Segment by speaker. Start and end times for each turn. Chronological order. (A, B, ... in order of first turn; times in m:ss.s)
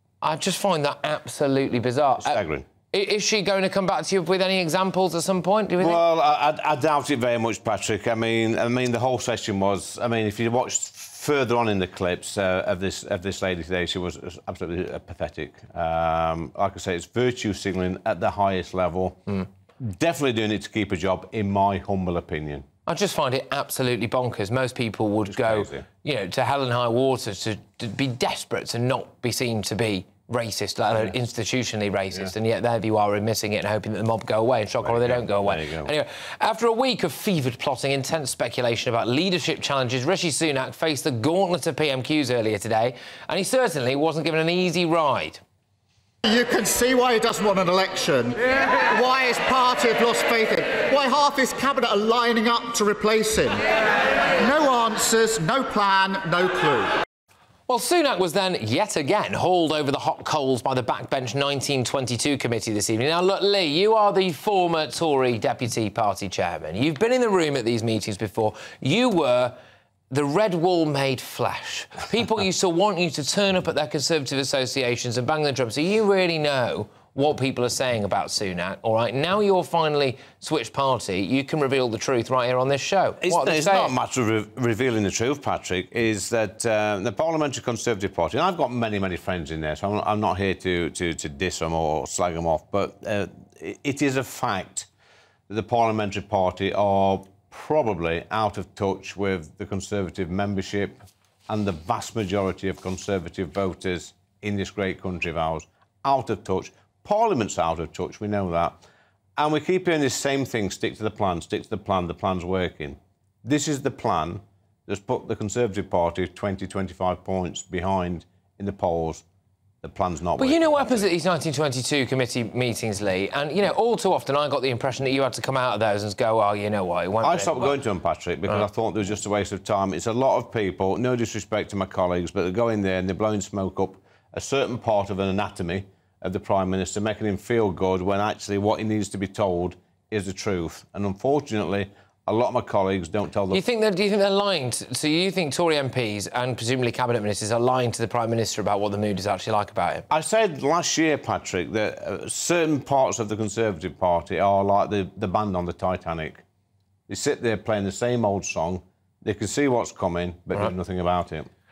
0:00.2-0:02.4 A
0:02.2-0:02.6 B
0:02.9-0:06.0 A
0:05.8-0:22.6 B
0:22.8-0:45.4 A
0:25.3-0:25.8 B
0:34.8-0:35.9 B
0:46.2-0:53.6 C
0:54.4-0:56.9 C
0:57.7-1:09.6 A
1:10.1-1:23.9 A
1:23.2-1:34.9 B
1:35.5-1:48.8 B
1:49.4-1:59.2 B
1:59.8-2:01.1 B
2:00.4-2:07.8 A
2:07.2-2:23.6 B
2:23.5-2:30.0 A
2:30.1-2:36.4 B
2:37.1-2:41.5 B